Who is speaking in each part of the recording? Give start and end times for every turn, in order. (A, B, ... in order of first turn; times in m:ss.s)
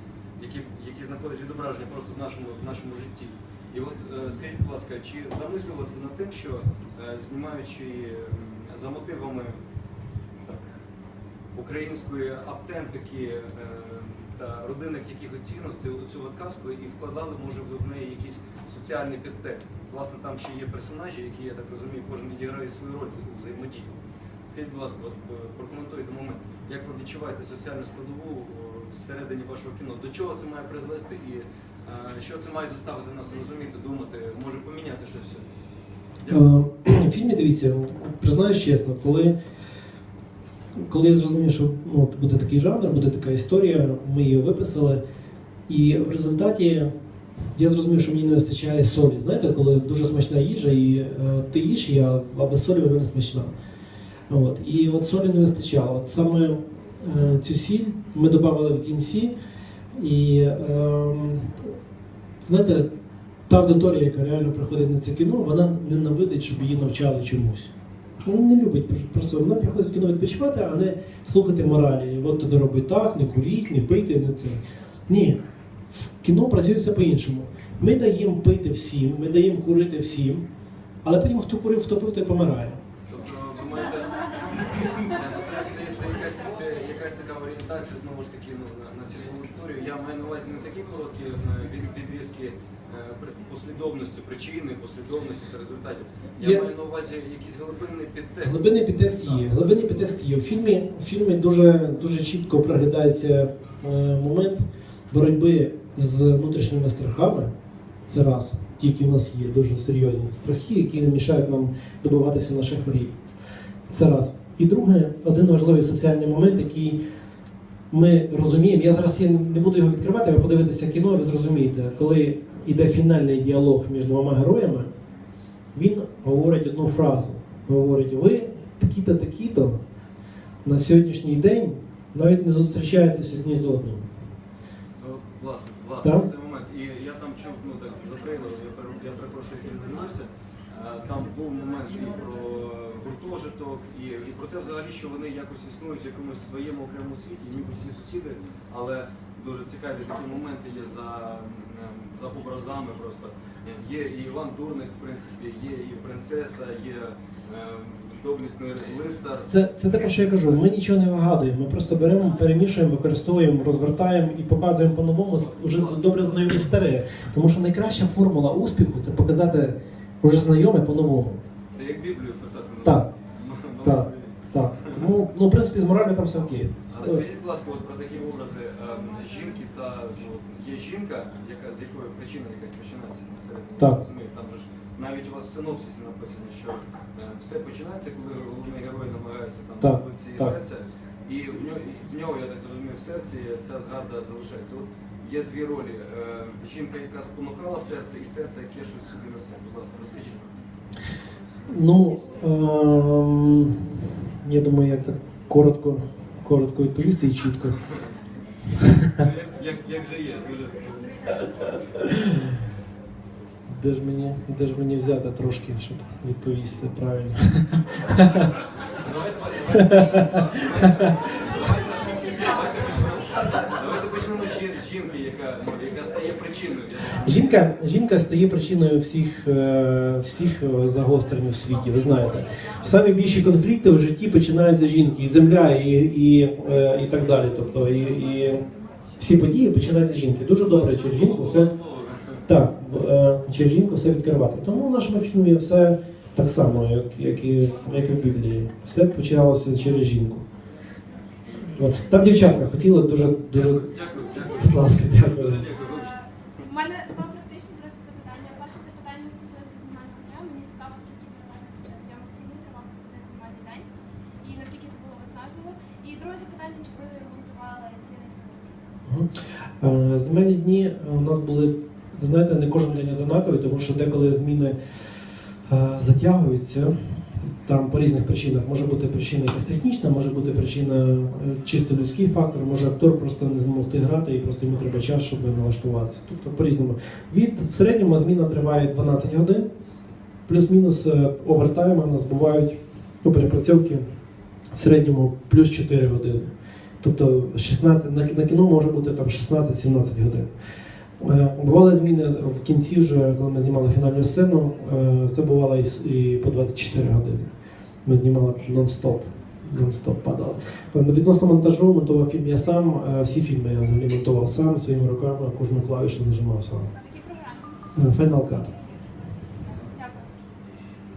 0:00.4-0:09.6 A
0:10.4-0:10.7 A
0:11.5-0:24.0 A
0:24.5-0:35.4 A
0:36.3-0:39.4 B
0:40.8-0:45.0 B
0:45.7-0:46.9 B
0:47.6-0:53.5 B
0:54.3-0:59.3 B
0:59.9-1:01.7 B
1:02.4-1:02.9 B
1:03.5-1:07.7 B
1:08.2-1:15.4 B
1:15.9-1:20.5 B
1:21.0-1:22.8 B
1:23.1-1:39.8 A
1:36.4-1:36.7 B
1:38.4-1:47.5 B
1:48.1-1:53.2 B
1:53.9-1:57.0 B
1:57.9-2:04.9 B
2:05.7-2:09.8 B
2:10.6-2:14.1 B
2:15.0-2:39.5 A
2:16.0-2:16.3 B
2:39.5-2:51.4 B
2:45.3-2:46.7 A
2:51.7-2:55.0 A
2:52.8-2:53.1 B
2:53.8-2:57.2 B
2:56.9-3:20.5 A
3:09.8-3:10.6 B
3:21.7-3:27.8 B
3:29.2-3:31.5 A
3:33.7-3:38.5 B
3:38.9-3:47.6 A
3:47.2-3:58.6 B
3:59.2-4:01.7 B
4:01.1-4:02.4 A
4:02.5-4:10.4 B
4:11.7-4:13.9 B
4:13.5-4:16.2 A
4:14.5-4:15.7 B
4:15.8-4:23.9 C
4:24.4-4:28.8 C
4:29.1-4:34.8 B
4:35.7-4:37.0 B
4:37.5-4:49.7 B
4:50.5-4:54.1 B
4:54.8-5:00.5 B
5:01.2-5:07.5 B
5:08.0-5:16.9 B
5:16.9-5:17.8 C
5:18.0-5:18.7 B
5:19.6-5:20.3 C